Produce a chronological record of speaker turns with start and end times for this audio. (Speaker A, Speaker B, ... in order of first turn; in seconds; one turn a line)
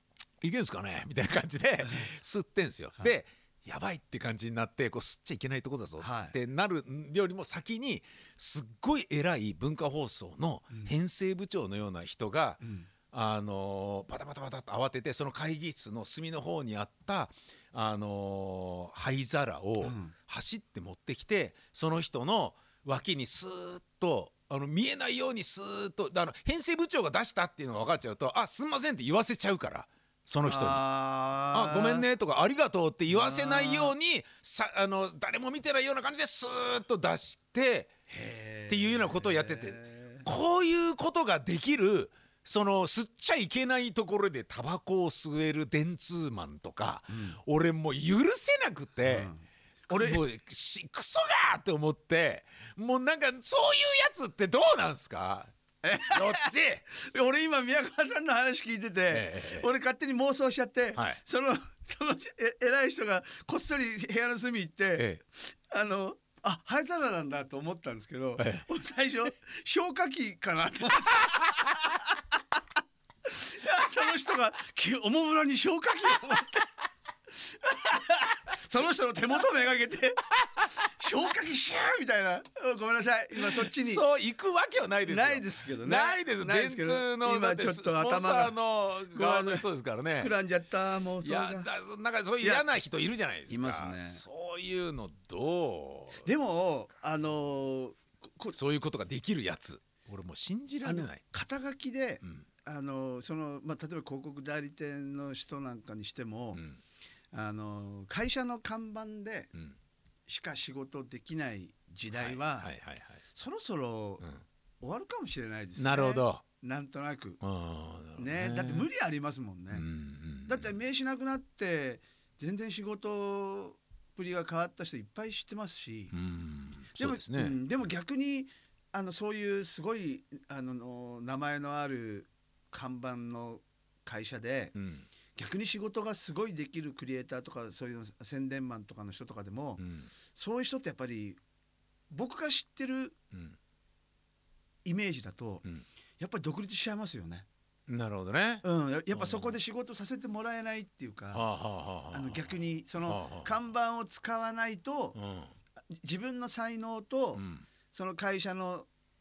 Speaker A: 0.4-30.8
Speaker B: 6.0-6.3
Speaker B: 12.6-12.9
Speaker B: 19.8-20.1
Speaker B: 30.4-32.0
Speaker A: 31.5-37.9
Speaker B: 33.1-34.0
Speaker B: 38.1-40.2
Speaker A: 38.7-49.3
Speaker B: 47.1-47.4
Speaker B: 49.0-50.2
Speaker A: 49.9-55.5
Speaker B: 55.8-72.4
Speaker A: 56.0-56.8
Speaker A: 59.1-59.7
Speaker A: 68.4-68.6
Speaker B: 73.2-76.7
Speaker B: 77.3-80.2
Speaker B: 80.8-84.0
Speaker A: 83.4-90.3
Speaker B: 85.0-88.5
Speaker B: 89.1-91.7
Speaker A: 91.2-96.3
Speaker B: 92.4-92.7
Speaker B: 93.5-94.2
Speaker B: 96.2-98.5
Speaker A: 98.5-101.2
Speaker B: 100.8-106.6
Speaker A: 106.5-106.8
Speaker B: 107.3-109.5
Speaker B: 110.3-112.7
Speaker A: 112.1-113.2
Speaker B: 113.3-114.2
Speaker B: 114.8-117.4
Speaker A: 115.8-116.4
Speaker A: 117.4-118.9
Speaker B: 118.2-119.8
Speaker A: 119.7-120.7
Speaker B: 120.5-126.1
Speaker A: 126.1-127.6
Speaker B: 127.0-134.7
Speaker A: 134.7-135.1
Speaker B: 135.3-139.8
Speaker A: 139.8-140.1
Speaker B: 140.3-141.4
Speaker B: 142.1-143.2
Speaker A: 143.3-143.6
Speaker B: 144.8-145.6
Speaker B: 146.2-147.4
Speaker A: 147.9-149.6
Speaker B: 148.6-151.4
Speaker A: 151.3-152.5
Speaker B: 152.1-155.2
Speaker A: 153.0-153.5
Speaker A: 155.1-155.5
Speaker B: 155.9-158.9
Speaker A: 157.3-157.7